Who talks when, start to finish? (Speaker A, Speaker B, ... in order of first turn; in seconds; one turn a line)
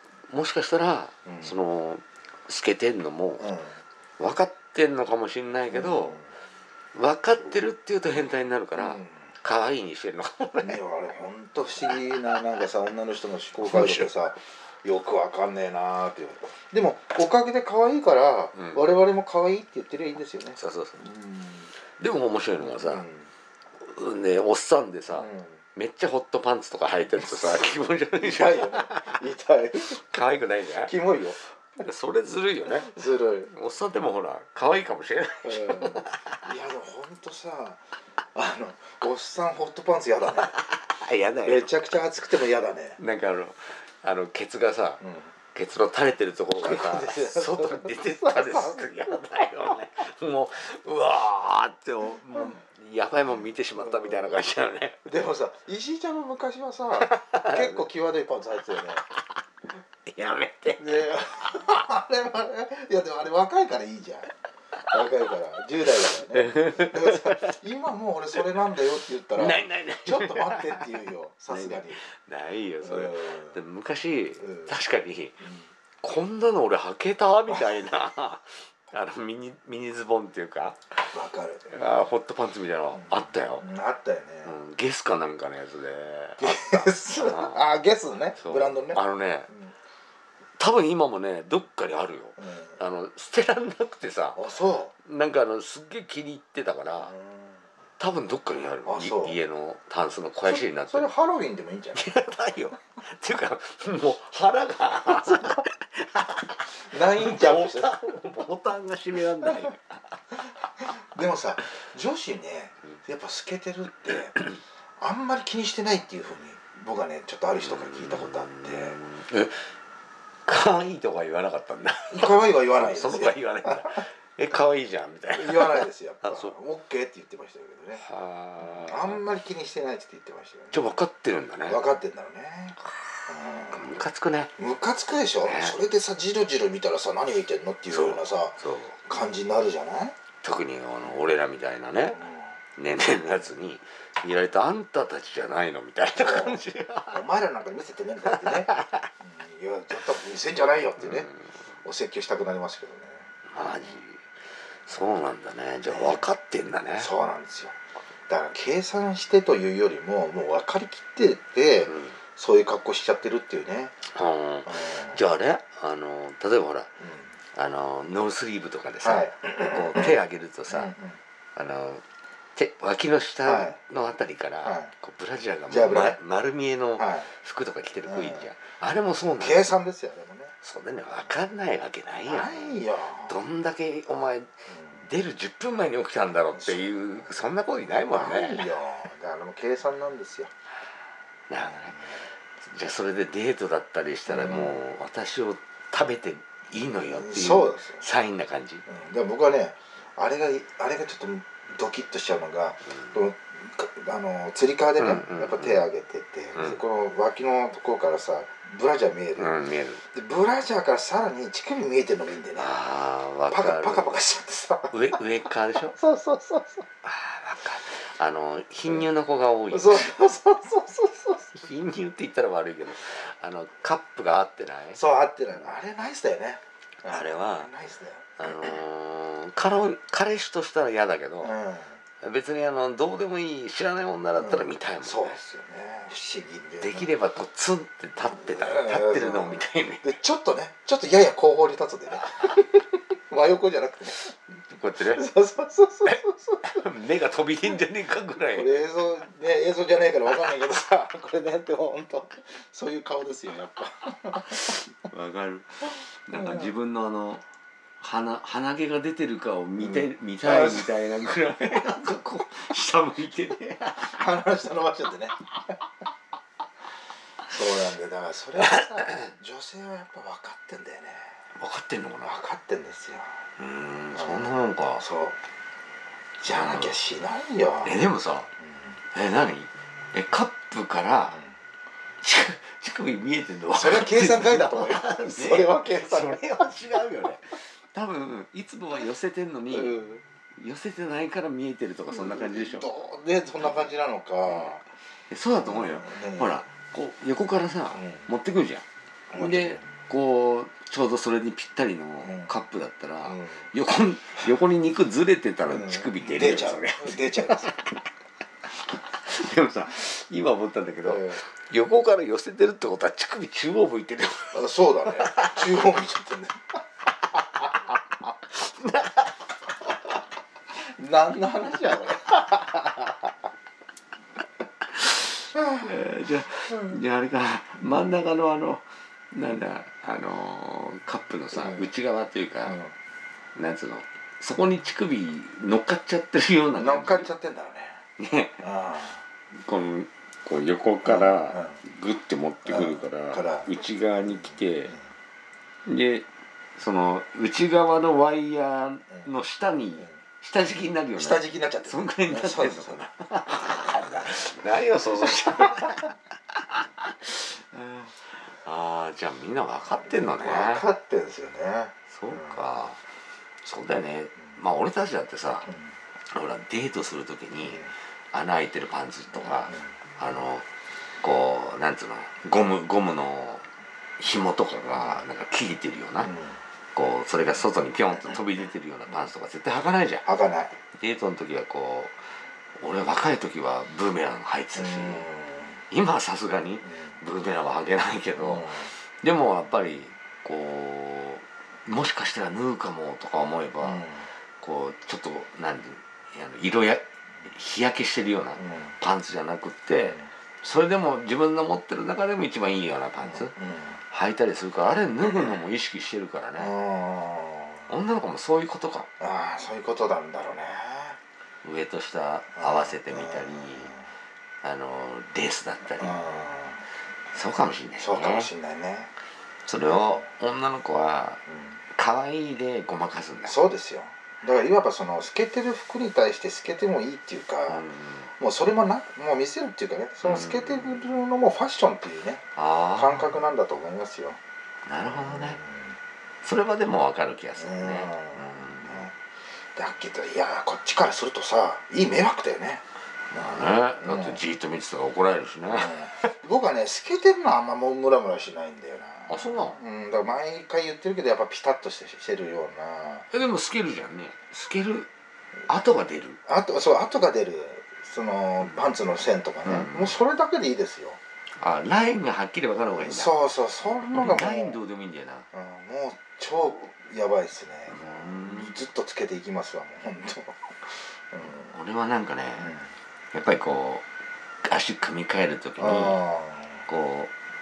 Speaker A: 0.3-3.5
Speaker B: 1.3-1.6
Speaker B: 3.4-3.8
Speaker A: 4.2-6.2
Speaker B: 5.7-6.3
Speaker A: 6.9-10.8
Speaker B: 8.8-9.3
Speaker B: 10.6-21.7
Speaker A: 11.9-12.4
Speaker A: 13.6-14.1
Speaker A: 18.5-18.9
Speaker A: 20.6-21.0
Speaker A: 21.9-23.1
Speaker B: 22.6-23.3
Speaker A: 23.8-29.1
Speaker B: 25.1-25.6
Speaker B: 27.2-30.0
Speaker A: 29.9-30.9
Speaker B: 30.8-31.8
Speaker A: 31.8-36.4
Speaker B: 32.7-33.5
Speaker B: 35.4-40.5
Speaker A: 40.5-41.7
Speaker B: 41.4-43.0
Speaker A: 43.0-45.0
Speaker B: 45.0-45.3
Speaker A: 45.5-55.0
Speaker B: 46.6-49.8
Speaker B: 53.7-54.4
Speaker B: 55.0-59.0
Speaker A: 57.0-57.8
Speaker A: 60.1-61.1
Speaker B: 60.8-64.3
Speaker B: 64.9-72.0
Speaker A: 66.4-67.5
Speaker A: 69.3-75.5
Speaker B: 72.8-73.6
Speaker B: 74.4-74.7
Speaker B: 75.4-75.7
Speaker A: 76.0-81.1
Speaker B: 81.1-81.7
Speaker A: 81.7-83.7
Speaker B: 82.9-84.6
Speaker A: 84.5-87.6
Speaker B: 86.4-89.8
Speaker A: 88.4-89.5
Speaker A: 90.6-94.5
Speaker B: 92.4-92.8
Speaker B: 94.3-94.9
Speaker A: 95.0-97.1
Speaker B: 97.0-97.6
Speaker A: 98.0-101.1
Speaker B: 98.8-99.4
Speaker B: 100.5-102.1
Speaker A: 102.0-110.0
Speaker B: 105.1-105.6
Speaker B: 106.8-108.0
Speaker B: 110.8-119.0
Speaker A: 117.6-119.7
Speaker A: 120.5-126.5
Speaker B: 122.1-124.0
Speaker B: 125.3-128.1
Speaker A: 127.9-129.2
Speaker B: 128.6-130.9
Speaker A: 130.7-131.9
Speaker B: 131.7-134.0
Speaker A: 132.8-134.5
Speaker B: 134.6-140.2
Speaker A: 135.4-135.8
Speaker A: 137.9-139.2
Speaker A: 140.4-142.2
Speaker B: 142.1-142.6
Speaker A: 142.8-147.2
Speaker B: 146.2-151.3
Speaker A: 148.3-149.1
Speaker A: 151.0-151.5
Speaker B: 151.8-154.0
Speaker A: 153.5-154.2
Speaker A: 154.9-157.1
Speaker B: 155.9-156.3
Speaker B: 157.0-157.8
Speaker B: 158.3-163.9
Speaker A: 161.9-162.2
Speaker A: 164.1-166.9
Speaker B: 164.7-165.2
Speaker B: 167.0-167.3
Speaker A: 167.5-170.9
Speaker B: 169.0-170.2
Speaker B: 170.7-171.2
Speaker A: 171.6-172.0
Speaker A: 172.6-179.7
Speaker B: 173.4-173.8
Speaker B: 174.6-174.9
Speaker B: 175.7-176.2
Speaker B: 177.0-177.3
Speaker B: 178.0-178.5
Speaker B: 179.4-180.5
Speaker A: 180.6-188.7
Speaker B: 182.3-183.4
Speaker B: 184.7-185.1
Speaker B: 186.5-190.5
Speaker A: 191.5-198.8
Speaker B: 191.6-192.2
Speaker B: 194.3-194.8
Speaker B: 197.1-198.1
Speaker B: 198.9-209.6
Speaker A: 205.0-205.8
Speaker A: 206.5-206.8
Speaker A: 209.4-210.0
Speaker B: 210.1-212.7
Speaker A: 212.6-214.2
Speaker B: 213.5-215.2
Speaker A: 214.9-216.0
Speaker B: 215.9-216.9
Speaker A: 217.0-220.2
Speaker B: 219.7-221.6
Speaker A: 221.5-225.0
Speaker B: 224.9-228.5
Speaker A: 227.1-227.7
Speaker A: 228.4-231.6
Speaker B: 231.4-232.0
Speaker A: 232.2-235.4
Speaker B: 234.4-237.1
Speaker A: 236.8-240.2
Speaker B: 238.4-244.4
Speaker A: 244.7-245.3
Speaker B: 245.1-246.8
Speaker A: 246.1-248.7
Speaker B: 248.5-254.7
Speaker A: 254.4-257.4
Speaker B: 256.3-256.7
Speaker A: 258.0-264.2
Speaker B: 259.8-260.9
Speaker B: 264.0-265.8
Speaker B: 267.5-271.4
Speaker A: 268.6-269.3
Speaker A: 271.6-272.4
Speaker B: 272.2-273.4
Speaker A: 273.6-275.0
Speaker B: 274.1-275.4
Speaker A: 276.4-277.0
Speaker B: 276.4-278.0
Speaker A: 277.8-278.5
Speaker B: 278.6-278.9
Speaker A: 279.1-281.4
Speaker B: 281.3-281.6
Speaker A: 282.2-290.0
Speaker B: 283.7-286.7
Speaker B: 289.7-290.2
Speaker A: 290.6-292.9
Speaker B: 292.1-294.8
Speaker A: 293.6-293.9
Speaker A: 294.5-294.8
Speaker A: 295.3-298.8
Speaker B: 295.5-296.6
Speaker B: 297.9-298.3
Speaker B: 299.3-299.9
Speaker A: 299.4-307.8
Speaker B: 302.2-302.5
Speaker B: 303.2-303.7
Speaker B: 305.7-307.7
Speaker A: 309.2-314.7
Speaker B: 311.1-311.4
Speaker B: 314.5-316.8
Speaker A: 315.2-315.7
Speaker A: 318.5-319.4
Speaker B: 320.9-323.1
Speaker A: 325.0-332.8
Speaker B: 325.6-325.9
Speaker B: 331.5-331.9
Speaker B: 332.6-332.9
Speaker A: 333.6-337.3
Speaker B: 336.8-338.0
Speaker A: 338.2-338.6
Speaker B: 338.6-339.2
Speaker A: 339.6-344.9
Speaker B: 341.0-341.8
Speaker B: 342.6-343.7
Speaker B: 344.2-345.1
Speaker A: 345.9-356.2
Speaker B: 351.2-353.1
Speaker A: 356.7-360.9
Speaker B: 360.4-362.7
Speaker A: 362.1-363.0
Speaker A: 363.6-365.7
Speaker B: 365.7-365.9
Speaker A: 366.3-370.7
Speaker B: 367.6-367.9
Speaker B: 369.4-369.9
Speaker A: 371.2-373.7
Speaker A: 374.2-376.3
Speaker B: 374.9-375.2
Speaker B: 376.2-376.6
Speaker A: 376.9-380.3
Speaker B: 380.2-380.7
Speaker A: 380.9-385.3
Speaker B: 384.8-385.8
Speaker A: 385.9-403.5
Speaker B: 386.8-387.2
Speaker B: 388.4-388.9
Speaker B: 393.8-394.3
Speaker B: 398.6-398.9
Speaker B: 400.0-400.3
Speaker B: 403.2-404.0
Speaker A: 404.1-406.7
Speaker B: 406.6-407.9
Speaker A: 407.9-409.1
Speaker B: 409.2-411.2
Speaker A: 411.6-414.0
Speaker B: 412.6-414.1
Speaker A: 414.6-416.2
Speaker B: 416.0-416.8
Speaker A: 417.3-418.5
Speaker B: 418.0-419.1
Speaker A: 419.7-421.4
Speaker B: 419.9-420.2
Speaker A: 421.9-423.6
Speaker B: 423.4-427.9
Speaker A: 427.7-428.3
Speaker B: 428.4-434.4
Speaker A: 430.2-431.1
Speaker A: 432.6-433.4
Speaker A: 434.9-435.6
Speaker B: 435.1-436.0
Speaker A: 436.4-439.1
Speaker B: 437.6-439.1
Speaker B: 439.8-444.4
Speaker A: 443.3-446.3
Speaker B: 445.7-453.3
Speaker A: 449.3-449.8
Speaker A: 453.3-455.1
Speaker A: 455.7-456.4
Speaker B: 456.5-461.2
Speaker A: 459.6-460.1
Speaker A: 461.6-465.5
Speaker B: 462.9-464.8
Speaker B: 465.5-471.8
Speaker A: 467.9-468.8
Speaker A: 471.4-472.8
Speaker B: 472.6-472.9
Speaker A: 473.3-474.1
Speaker A: 474.6-476.2
Speaker B: 475.8-476.9
Speaker A: 476.9-477.3